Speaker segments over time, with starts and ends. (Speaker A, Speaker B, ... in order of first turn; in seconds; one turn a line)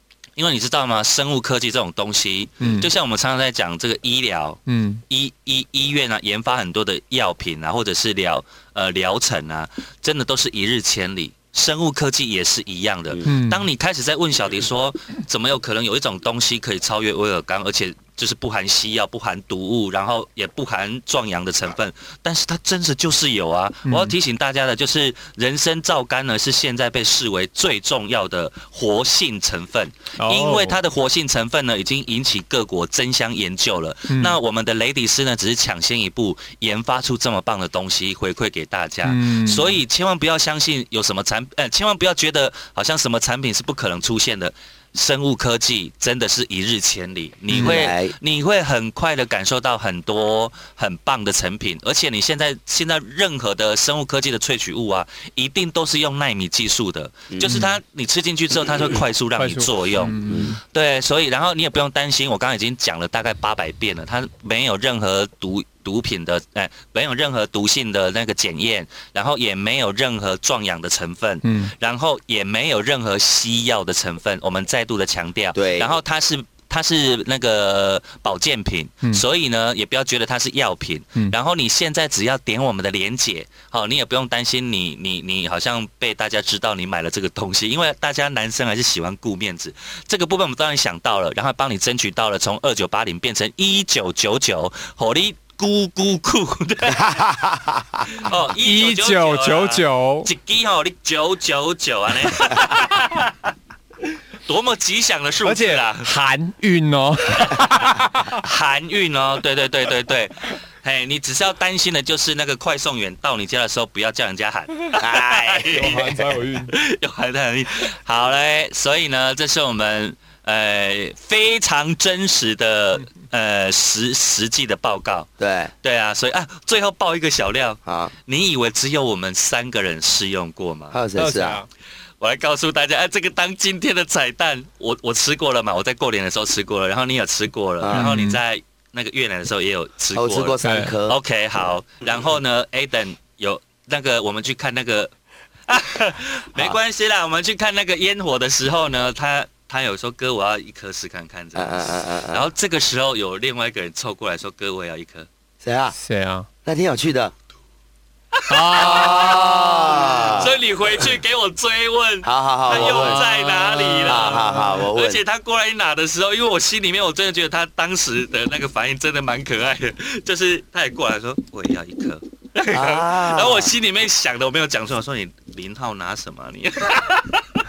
Speaker A: 0.4-97.2
Speaker B: 2.6-2.9
Speaker B: 4.7-5.0
Speaker B: 13.2-13.6
Speaker B: 23.9-24.1
Speaker B: 30.2-30.8
Speaker B: 34.1-34.4
Speaker B: 39.0-39.8
Speaker B: 47.5-47.8
Speaker C: 47.5-48.1
Speaker C: 57.3-57.6
Speaker B: 57.5-57.7
Speaker B: 59.4-60.6
Speaker C: 60.3-60.5
Speaker B: 71.4-71.7
Speaker C: 75.5-75.9
Speaker C: 96.9-98.1
Speaker A: 98.1-103.5
Speaker B: 98.6-100.3
Speaker A: 104.5-106.1
Speaker B: 105.4-108.4
Speaker A: 108.3-125.3
Speaker C: 115.0-116.2
Speaker B: 115.7-116.7
Speaker C: 125.4-125.7
Speaker A: 125.8-131.0
Speaker C: 127.9-128.1
Speaker C: 130.9-131.6
Speaker B: 131.2-131.7
Speaker A: 132.2-145.1
Speaker C: 137.8-138.2
Speaker B: 137.9-138.4
Speaker C: 140.1-141.2
Speaker B: 140.6-140.9
Speaker A: 145.7-155.3
Speaker C: 151.6-152.4
Speaker C: 155.6-155.9
Speaker B: 156.0-156.5
Speaker C: 156.7-157.3
Speaker A: 158.4-177.5
Speaker B: 158.5-160.4
Speaker C: 158.7-160.6
Speaker C: 162.2-163.2
Speaker B: 162.7-164.7
Speaker C: 164.0-165.2
Speaker C: 172.7-173.7